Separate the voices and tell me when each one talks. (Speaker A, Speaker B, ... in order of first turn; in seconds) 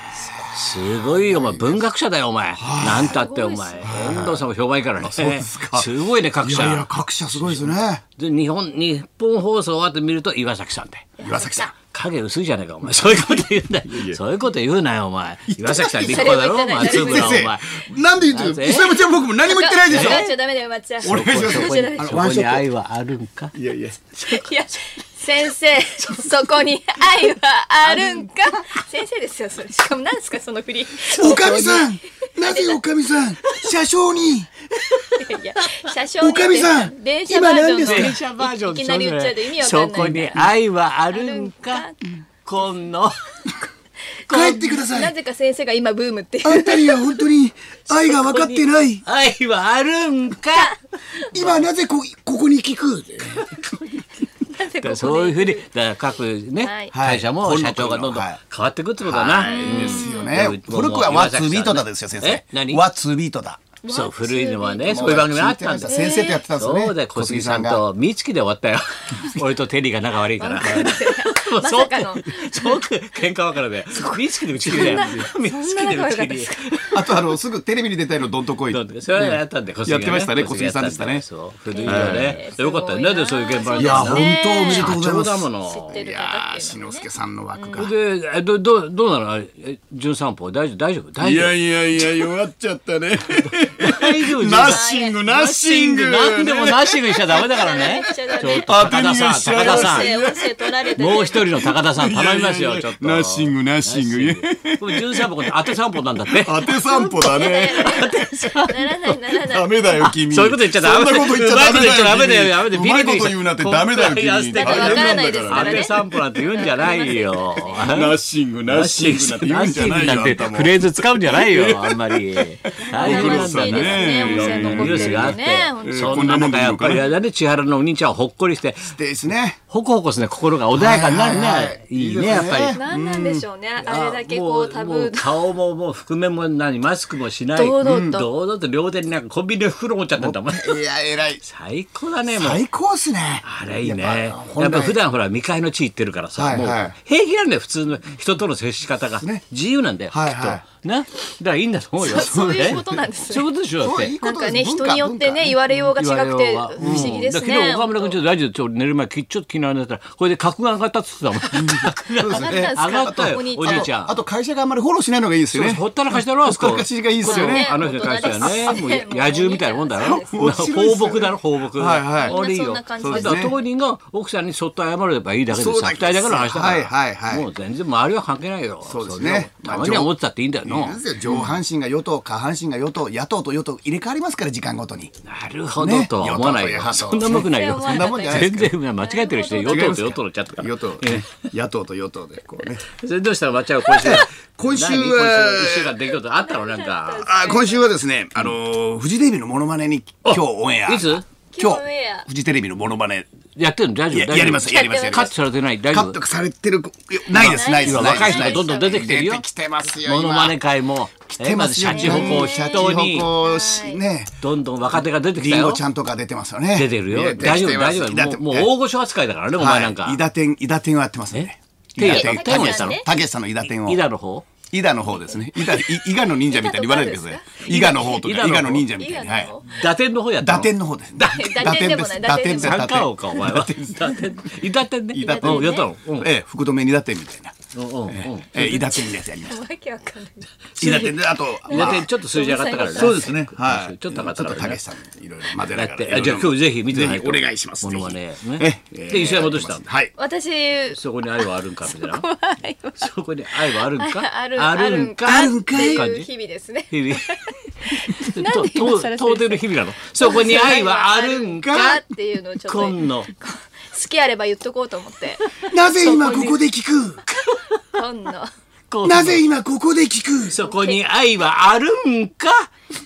Speaker A: 0.1-1.9, 2.6-3.2, 3.8-4.5, 5.0-8.0, 11.2-11.7, 12.8-14.2, 15.5-20.2, 21.0-22.6, 23.5-24.1, 31.1-34.5, 36.2-38.2, 44.3-45.1, 46.4-49.0, 51.3-53.4, 56.9-58.4, 59.0-63.6, 64.8-67.8, 70.6-71.0, 74.6-75.2, 76.9-81.2, 81.8-82.3, 83.7-87.9, 91.2-105.5, 106.3-108.1, 109.5-116.0, 117.8-127.0, 128.8-129.6, 130.7-133.4, 137.8-138.2, 140.2-141.4, 142.3-145.0, 146.3-146.9, 150.1-150.6, 152.1-153.0, 153.8-155.8, 156.8-157.2, 161.5-168.8, 170.3-172.4, 173.0-173.5, 175.5-177.5, 178.8-180.1, 180.6-185.1, 185.8-188.7, 189.6-192.8, 193.9-195.9, 197.2-203.3, 204.1-205.3, 205.9-210.6, 211.3-214.3, 214.9-218.7, 219.6-224.0, 224.7-229.5, 230.4-234.5, 235.1-237.5, 238.1-239.6, 240.8-242.1, 242.9-250.1, 255.2-256.0, 261.6-262.0, 265.6-267.2, 269.0-270.6
Speaker B: 0.4-11.1, 11.8-19.1, 19.9-20.3, 21.0-23.5, 26.0-26.3, 27.8-28.3, 31.1-31.9, 33.4-33.7, 34.9-35.9, 37.8-41.9, 42.4-43.5, 44.3-44.7, 47.9-51.6, 53.3-53.9, 54.8-62.8, 63.9-77.1, 78.7-85.9, 87.8-91.5, 93.5-100.1, 101.0-109.2, 110.0-128.9, 129.7-132.8, 133.8-140.8, 141.4-142.6, 143.4-154.1, 155.9-164.2, 165.5-181.0, 185.2-191.5, 192.9-197.3, 200.2-201.2, 203.6-206.2, 207.3-213.3, 214.4-215.8, 216.7-220.2, 221.3-223.0, 223.6-224.5, 227.6-228.9, 229.7-231.7, 232.5-236.3, 237.7-238.8, 240.7-244.8, 245.5-249.8, 250.9-252.2, 253.0-256.3, 256.9-257.3, 258.1-261.9, 262.6-263.3, 266.0-266.5, 268.9-269.4, 270.5-272.7
Speaker C: 2.9-4.1, 11.2-11.7, 16.0-17.4, 19.4-22.2, 24.2-31.8, 32.4-32.8, 35.1-40.5, 41.1-42.0, 44.3-47.2, 54.5-55.7, 56.6-56.9, 59.4-60.5, 63.8-65.1, 65.8-66.4, 70.4-72.8, 73.9-76.8, 81.7-85.0, 85.6-87.9, 94.5-95.2, 97.3-101.7, 106.7-109.8, 114.5-118.0, 122.8-126.5, 132.7-135.4, 137.5-138.3, 152.0-153.5, 154.2-158.2, 162.2-163.9, 167.2-170.4, 172.2-173.6, 187.2-190.1, 196.1-197.9, 201.5-202.3, 204.6-205.3, 207.3-209.1, 211.8-214.0, 222.0-223.1, 225.2-225.8, 226.4-227.6, 229.0-229.7, 231.2-233.5, 235.2-235.8, 238.6-240.9, 241.7-243.3, 250.2-266.6, 267.9-268.5, 270.6-271.0